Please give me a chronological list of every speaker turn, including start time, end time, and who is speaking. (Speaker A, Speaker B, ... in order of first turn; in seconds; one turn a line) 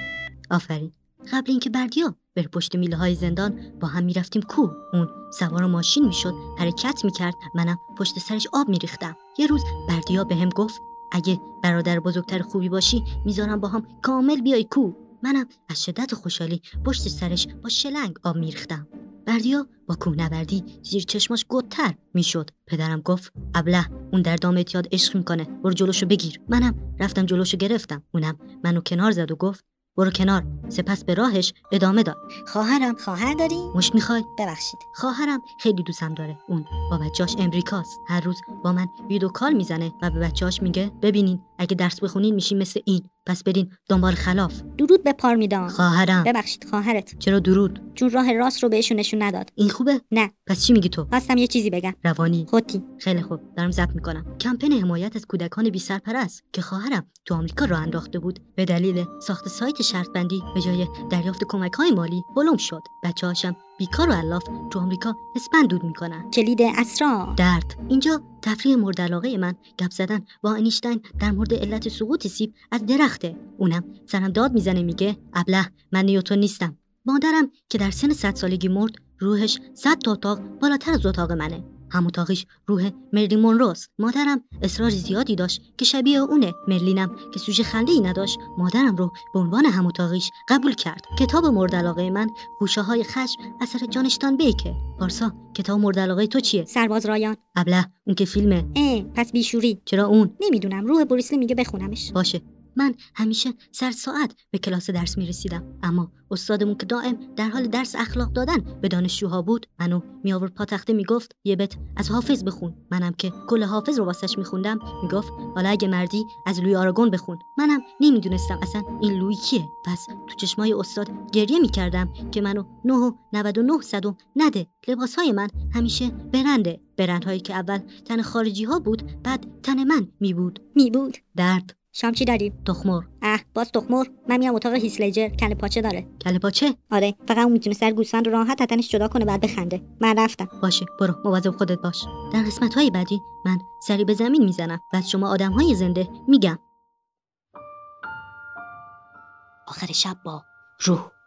Speaker A: 0.5-33.0
Speaker B: 33.0-33.8
Speaker A: 33.7-34.4
Speaker B: 34.4-34.8
Speaker A: 34.9-44.6
Speaker B: 44.8-47.1
Speaker A: 45.7-46.3
Speaker A: 47.2-47.8
Speaker B: 48.0-49.5
Speaker A: 49.6-51.1
Speaker B: 51.1-52.0
Speaker A: 52.0-66.3
Speaker B: 52.5-52.9
Speaker B: 66.3-67.4
Speaker A: 67.4-96.7
Speaker B: 96.7-97.4
Speaker A: 97.5-98.7
Speaker B: 98.7-99.8
Speaker A: 99.9-100.3
Speaker B: 100.4-102.1
Speaker A: 102.1-130.6
Speaker B: 130.8-131.2
Speaker A: 131.3-131.8
Speaker B: 131.9-132.6
Speaker A: 132.7-133.1
Speaker B: 133.2-136.1
Speaker A: 136.2-136.8
Speaker B: 136.9-140.5
Speaker A: 140.6-146.6
Speaker A: 149.7-151.1